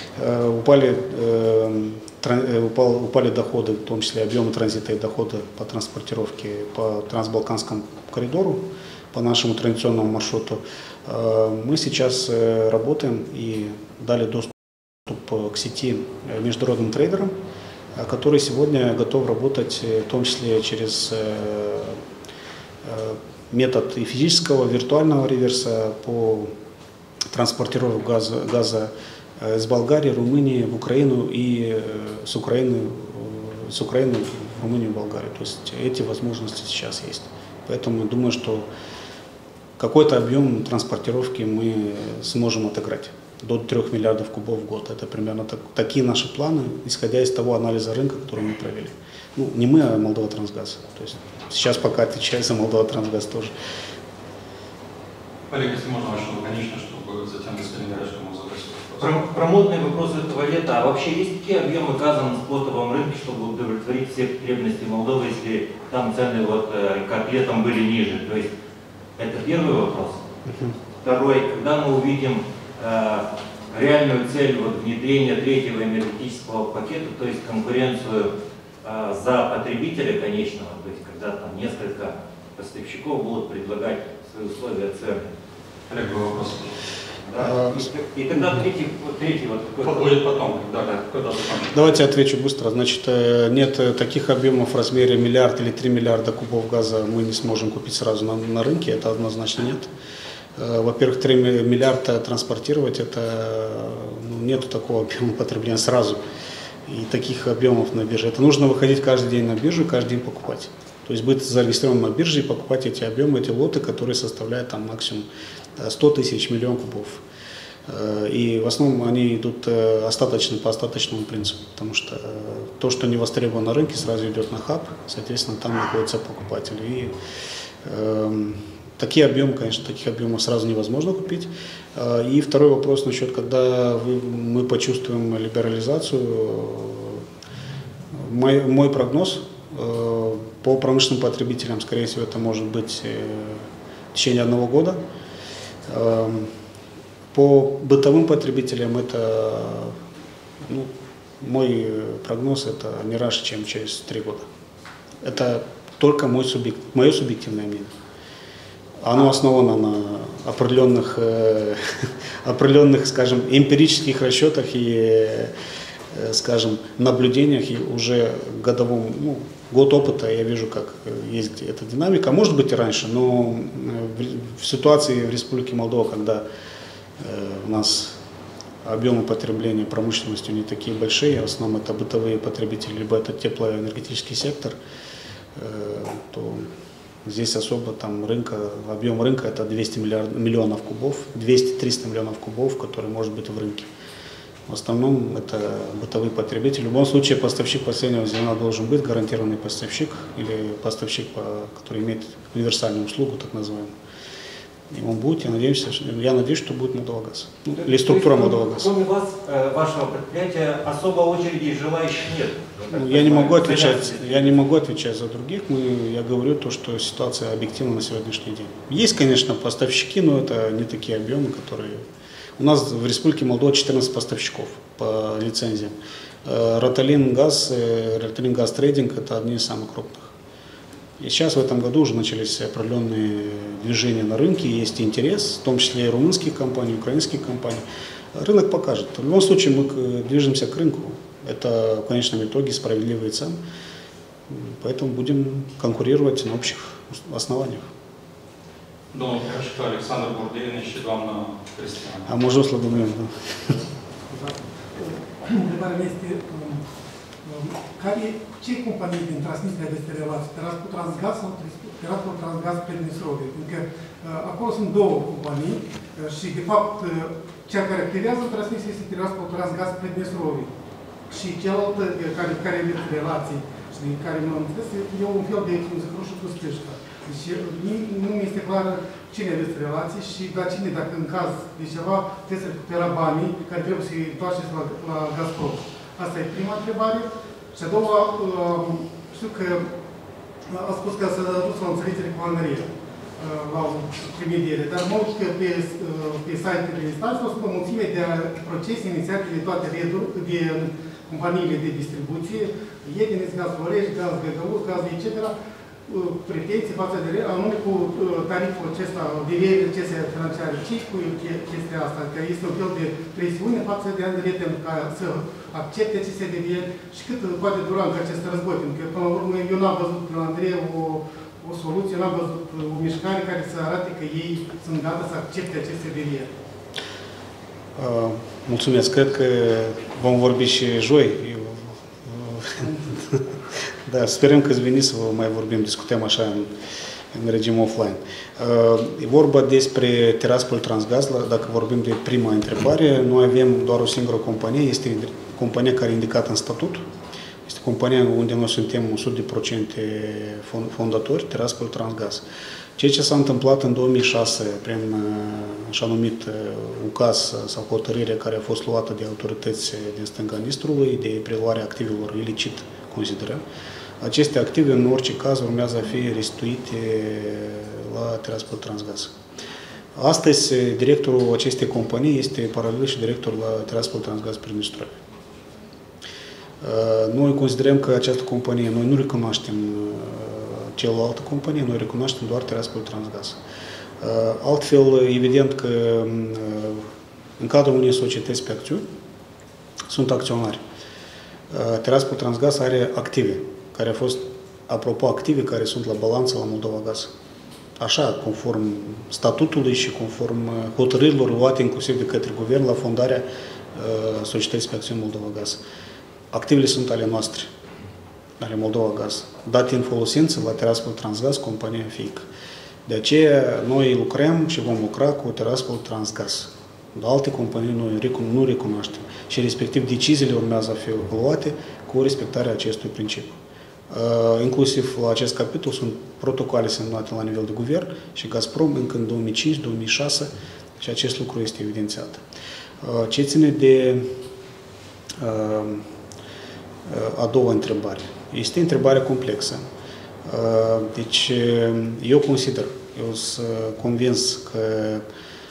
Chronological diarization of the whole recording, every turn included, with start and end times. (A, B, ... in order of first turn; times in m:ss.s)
0:00.2-0:17.3 A
0:17.9-0:22.0 A
0:22.8-0:26.5 A
0:27.3-0:38.7 A
0:39.8-0:53.5 A
0:55.5-0:59.2 B
0:59.0-1:08.5 C
1:09.2-1:10.2 C
1:10.4-1:10.7 A
1:11.0-1:18.3 C
1:18.8-1:25.2 C
1:25.9-1:26.7 B
1:27.3-1:30.2 C
1:27.4-1:27.9 A
1:29.8-1:32.0 B
1:31.7-1:39.9 A
1:40.6-1:46.2 A
1:46.9-1:55.2 A
1:55.8-1:57.2 A
1:57.9-2:07.1 A
2:07.8-2:17.2 A
2:18.1-2:25.0 A
2:25.9-2:26.5 A
2:27.3-2:29.9 A
2:30.6-2:34.5 A
2:35.2-2:37.9 A
2:39.0-2:41.8 A
2:42.4-2:45.5 A
2:46.1-2:56.4 A
2:57.2-2:58.2 A
2:58.8-3:04.8 A
3:05.6-3:06.7 A
3:07.2-3:13.9 A
3:14.7-3:23.9 A
3:24.9-3:28.9 A
3:27.7-3:34.6 C
3:32.9-3:42.0 A
3:42.6-3:50.3 A
3:51.2-3:57.8 A
3:58.3-4:03.6 A
4:04.5-4:07.9 A
4:09.1-4:12.3 B
4:12.2-4:13.8 A
4:14.3-4:16.8 D
4:17.4-4:30.7 D
4:31.3-4:49.9 D
4:50.7-5:05.5 D
5:06.1-5:26.5 D
5:28.0-5:33.4 A
5:34.0-5:36.7 A
5:37.3-5:47.0 A
5:47.6-5:52.4 A
5:53.0-6:03.6 A
6:04.2-6:09.3 A
6:10.2-6:15.2 A
6:16.8-6:23.6 A
6:24.2-6:27.0 A
6:27.6-6:29.0 A
6:30.1-6:30.8 A
6:31.7-6:37.3 A
6:38.0-6:45.8 A
6:46.5-6:47.7 A
6:48.6-6:52.4 A
6:53.1-7:03.6 A
7:04.1-7:12.4 A
7:13.0-7:14.3 A
7:15.4-7:16.0 A
7:17.1-7:19.8 A
7:20.4-7:25.2 A